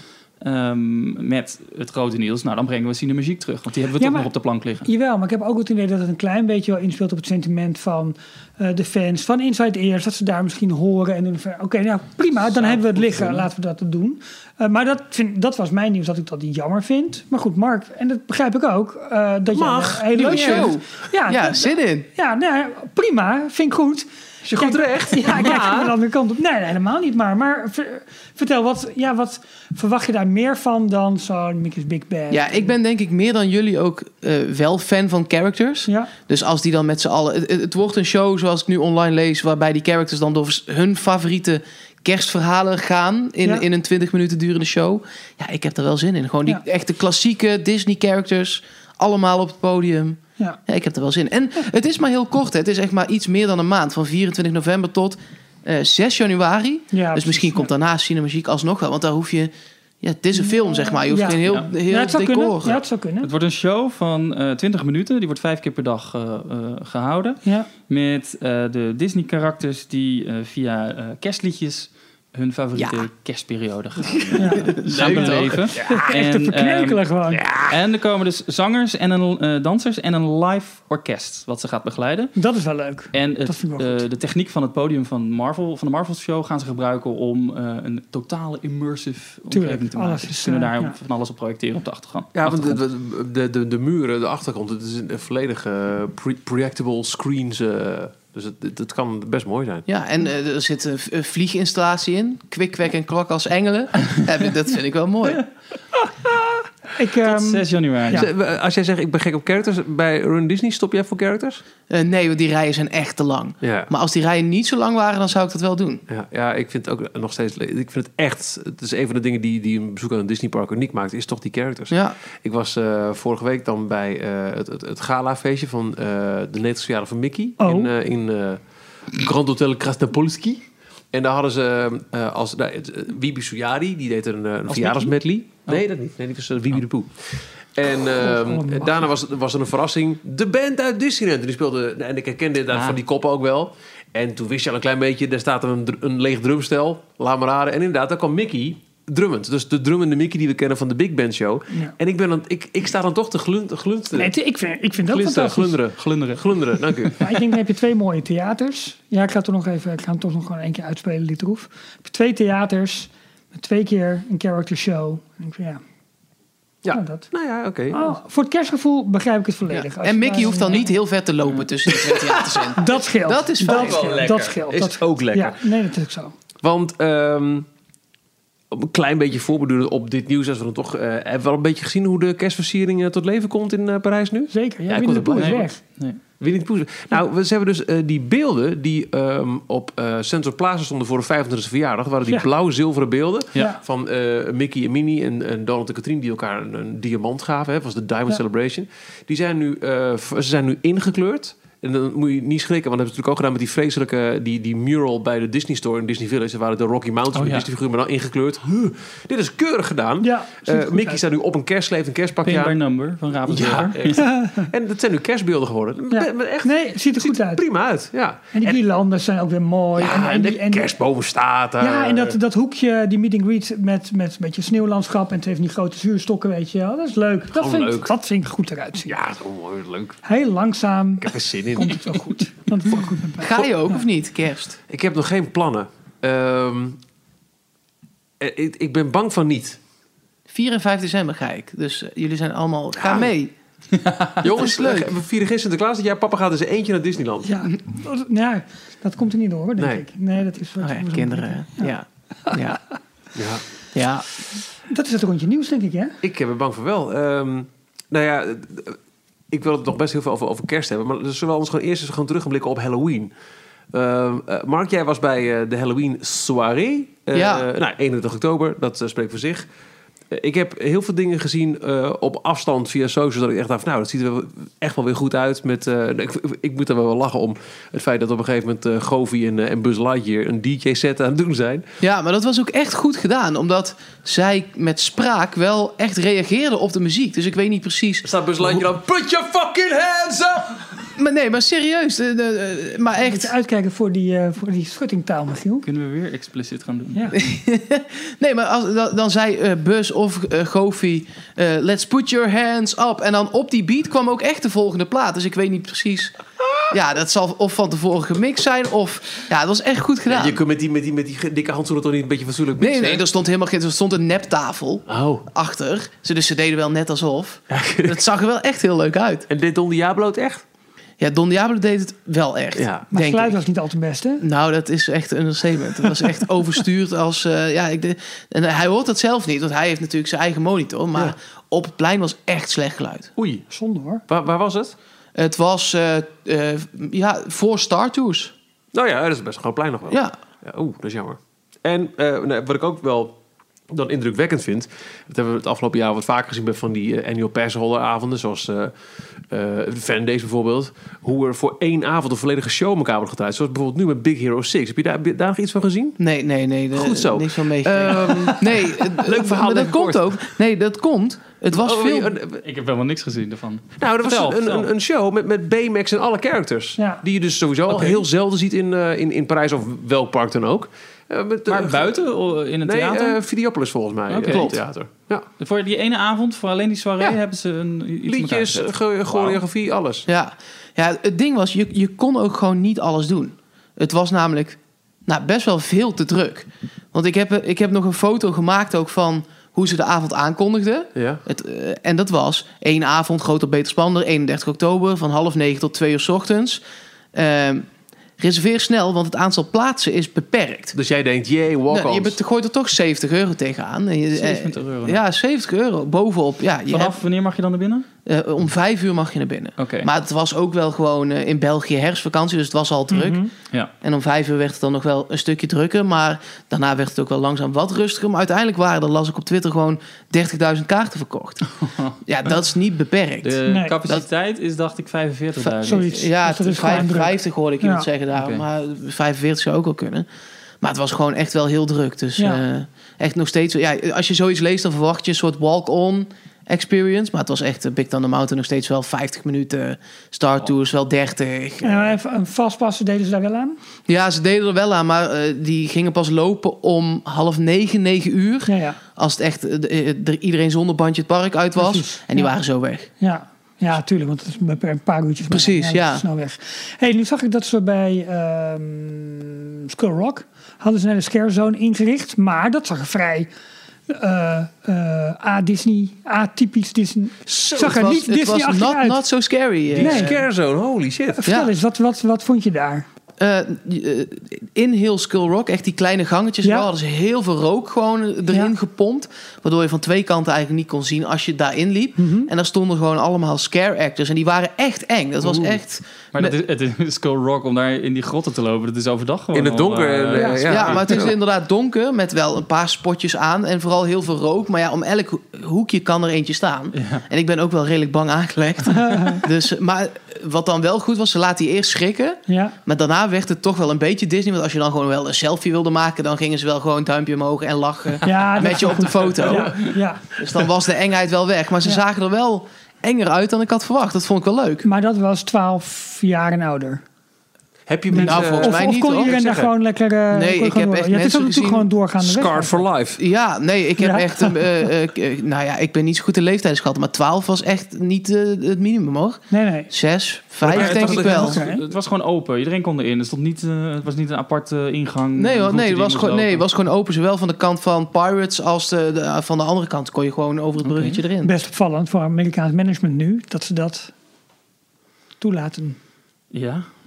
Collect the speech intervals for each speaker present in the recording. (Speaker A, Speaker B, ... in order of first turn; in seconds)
Speaker A: 0.4-4.9, 12.4-13.5, 63.2-77.0, 77.7-82.3, 83.1-92.8, 107.2-108.3, 134.7-135.8, 142.7-143.0, 156.0-157.1, 185.3-186.2, 207.3-207.7, 212.4-214.2, 243.9-244.4, 295.8-297.2, 362.6-364.9, 367.9-368.2, 371.7-373.4, 374.3-374.8, 375.6-379.6, 404.3-405.2, 406.9-408.1, 409.8-410.1, 421.8-422.1, 423.4-426.1, 428.4-428.6, 486.3-491.0, 496.9-497.2, 530.7-536.6, 540.8-541.2, 546.5-546.9
Speaker B: 4.0-4.3, 4.8-32.7, 56.9-57.7, 60.5-63.3, 74.4-75.2, 75.8-77.4, 82.4-84.0, 89.5-91.0, 107.0-108.3, 127.6-127.9, 138.2-139.1, 154.2-155.8, 157.2-165.8, 166.9-167.3, 167.9-170.9, 172.8-176.3, 184.5-185.8, 210.2-211.2, 214.1-214.7, 216.1-217.6, 218.5-221.0, 221.8-229.1, 230.2-234.0, 247.4-251.9, 254.9-256.2, 293.3-295.9, 323.1-324.4, 333.7-334.2, 413.1-413.5, 423.7-423.9, 425.8-428.1, 441.8-443.8, 448.7-449.0, 451.8-452.5, 453.2-463.5, 464.1-469.2, 470.0-470.4, 471.4-473.1, 482.2-482.5, 490.4-490.9, 499.0-499.4, 502.5-502.8, 508.2-510.4, 514.8-517.0, 518.1-522.8, 524.0-524.6, 529.5-529.9, 531.3-531.8, 541.4-544.1, 545.4-546.0
Speaker C: 19.5-20.7, 24.4-25.9, 74.8-76.1, 77.3-77.7, 92.3-99.8, 108.1-111.6, 113.6-113.9, 116.1-128.6, 129.1-154.3, 155.0-157.4, 166.8-168.1, 173.6-175.7, 176.6-177.7, 178.7-185.7, 186.4-212.8, 213.5-218.8, 219.9-222.4, 227.5-228.1, 229.1-230.2, 231.2-232.2, 234.9-237.0, 238.4-239.8, 243.0-243.3, 244.4-247.7, 249.8-250.1, 253.3-253.6, 256.2-259.0, 259.5-263.3, 263.9-269.7, 270.3-281.9, 288.2-290.9, 310.3-313.2, 315.1-315.5, 317.7-318.2, 319.5-320.6, 322.8-323.1, 333.4-333.7, 334.3-334.9, 338.9-343.4, 343.9-348.9, 349.5-356.2, 356.9-360.5, 361.7-362.6, 364.0-372.3, 372.8-375.4, 378.3-380.3, 391.2-391.4, 400.9-402.4, 469.9-471.5, 485.4-485.8, 489.5-491.4, 517.9-519.7, 522.2-523.2, 530.6-531.4
Speaker D: 20.1-22.1, 32.3-59.5, 60.0-62.8, 72.8-73.0, 74.3-75.4, 99.9-105.5, 111.9-116.0, 121.9-122.2, 169.7-174.4, 233.4-234.8, 240.5-243.5, 244.4-245.1, 250.8-252.8, 253.9-254.3, 267.3-267.7, 282.0-288.3, 291.2-293.5, 297.3-306.4, 306.9-310.6, 312.8-319.5, 321.2-323.6, 324.4-333.3, 335.4-338.5, 356.2-362.3, 374.5-374.8, 380.3-396.8, 397.4-397.9, 398.4-401.0, 401.9-407.2, 408.3-413.4, 414.0-421.7, 422.2-423.6, 425.6-430.3, 430.8-442.1, 444.1-453.1, 455.5-456.3, 467.5-470.4, 471.4-471.7, 473.4-486.6, 490.7-514.9, 518.1-519.3, 520.3-521.9, 523.2-531.6, 535.4-541.5